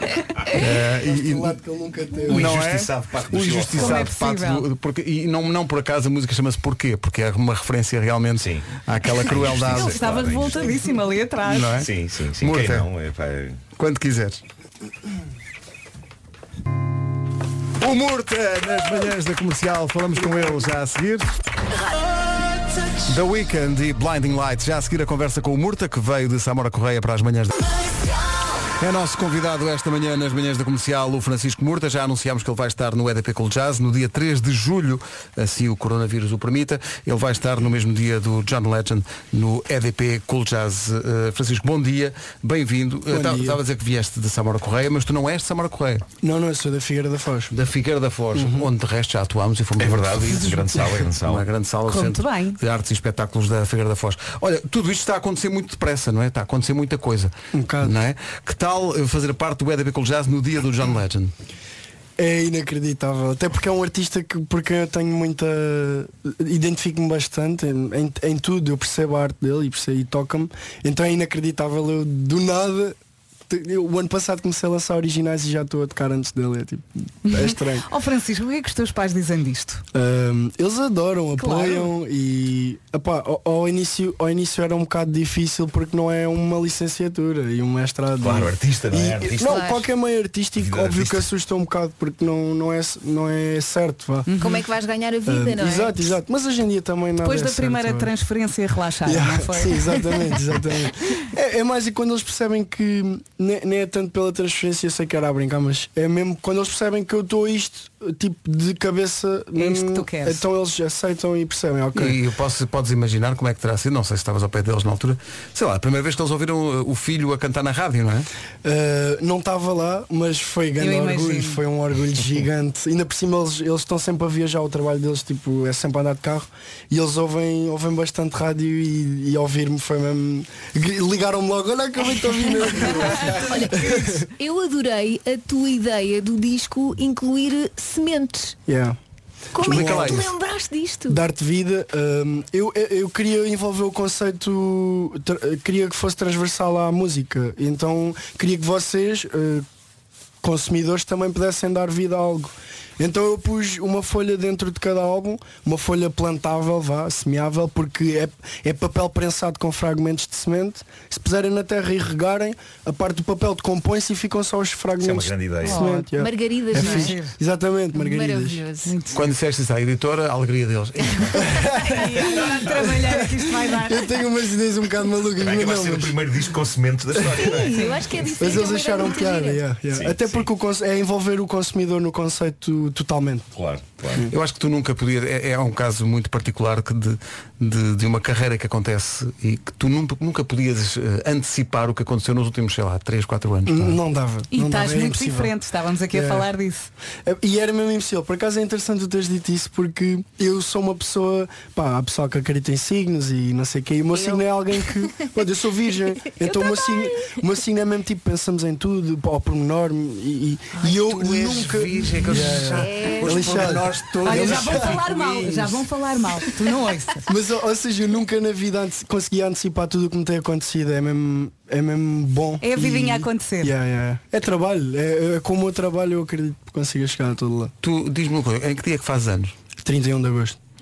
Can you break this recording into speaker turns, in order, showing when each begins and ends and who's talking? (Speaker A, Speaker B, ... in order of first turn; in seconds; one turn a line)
Speaker A: 0.5-1.6
Speaker B: 0.9-2.5
Speaker C: 2.3-4.1
Speaker A: 2.3-10.3
Speaker D: 3.8-4.7
Speaker C: 8.4-10.8
Speaker D: 9.5-11.8
Speaker A: 11.5-12.9
Speaker C: 11.8-13.6
Speaker A: 13.8-14.4
Speaker A: 17.8-21.3
Speaker B: 20.3-20.7
Speaker A: 23.1-27.5
Speaker A: 28.8-46.0
Speaker B: 43.1-43.6
Speaker B: 46.2-47.5
Speaker A: 47.5-61.3
Speaker B: 48.3-48.7
Speaker C: 49.8-51.5
Speaker D: 51.9-52.6
Speaker B: 57.5-58.0
Speaker B: 62.2-73.0
Speaker B: 73.5-77.9
Speaker D: 77.3-79.8
Speaker B: 79.9-94.3
Speaker D: 81.4-81.9
Speaker C: 88.2-89.7
Speaker E: 89.4-89.9
Speaker C: 90.6-91.3
Speaker D: 94.3-94.7
Speaker E: 94.4-96.2
Speaker B: 95.3-98.1
Speaker D: 97.2-100.3
Speaker B: 99.0-112.2
Speaker D: 109.6-110.4
Speaker A: 112.0-118.3
Speaker B: 118.6-134.3
Speaker D: 120.8-121.6
Speaker E: 133.2-138.6
Speaker B: 138.7-139.0
Speaker E: 139.5-141.2
Speaker B: 139.6-140.3
Speaker A: 139.7-140.3
Speaker B: 141.1-149.7
Speaker B: 150.4-168.6
Speaker C: 165.0-165.8
Speaker D: 165.6-166.1
Speaker E: 166.1-167.2
Speaker D: 166.7-167.3
Speaker E: 167.9-169.0
Speaker D: 168.8-169.3
Speaker A: 169.1-171.6
Speaker B: 171.4-172.1
Speaker D: 172.0-174.2
Speaker C: 172.2-172.6
Speaker B: 173.1-176.2
Speaker C: 175.4-177.8
Speaker E: 177.3-179.7
Speaker D: 177.7-178.3
Speaker B: 178.4-183.5
Speaker C: 179.9-180.5
Speaker C: 183.5-184.3
Speaker A: 184.3-194.0
Speaker B: 193.7-195.5
Speaker D: 194.5-196.9
Speaker B: 196.1-196.5
Speaker B: 197.2-215.7
Speaker E: 204.1-204.4
Speaker E: 206.4-207.4
Speaker A: 210.8-215.6
Speaker E: 212.7-213.7
Speaker D: 214.2-217.3
Speaker B: 217.3-227.7
Speaker D: 222.6-223.8
Speaker A: 227.8-229.5
Speaker B: 229.8-230.6